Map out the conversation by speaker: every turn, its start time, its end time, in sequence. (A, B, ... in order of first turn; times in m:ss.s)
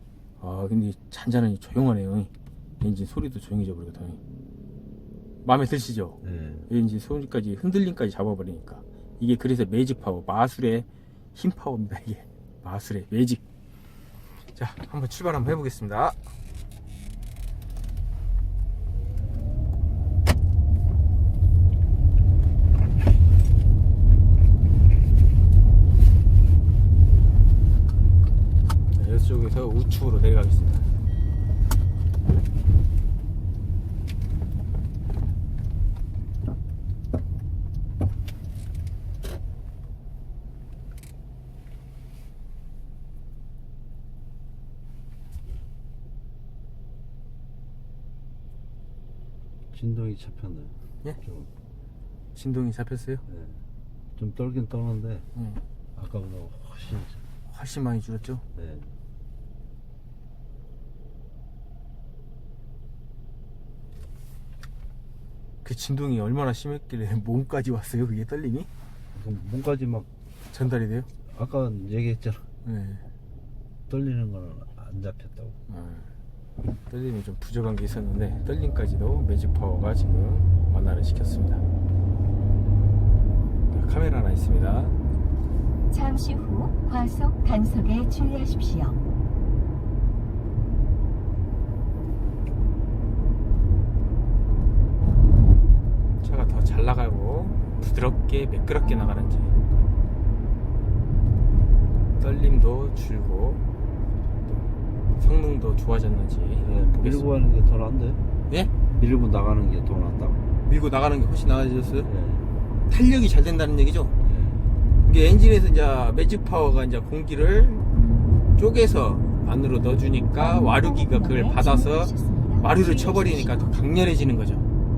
0:00.4-0:02.3 A
0:02.8-0:04.2 A
0:05.4-0:06.2 A
0:06.2-0:06.7 B
0:06.7-0:13.4 A
0:14.5-0:16.2 A
0:28.9-0:30.9 A
0:49.7-0:51.5 B
0:52.3-0:53.2 A
0:53.3-0:53.6 B
0:54.2-0:55.2 B
0:55.3-0:55.6 A
0:55.9-0:57.2 B
0:57.5-0:58.4 A
0:58.5-0:58.9 B
1:05.6-1:08.7 A
1:09.1-1:10.1 B
1:10.5-1:11.1 A
1:11.3-1:12.4 B
1:12.6-1:13.0 A
1:13.9-1:15.6 B
1:15.7-1:16.1 A
1:16.9-1:21.6 A
1:23.7-1:24.9 A
1:25.9-1:29.0 C
1:36.2-1:39.6 A
1:42.2-1:43.6 A
1:44.5-1:47.2 A
1:46.6-1:48.2 B
1:48.9-1:50.4 B
1:50.6-1:52.1 A
1:52.0-1:52.5 B
1:52.9-1:54.1 A
1:54.2-1:54.6 B
1:55.0-1:57.8 A
1:58.6-2:04.7 A
2:00.4-2:03.8 C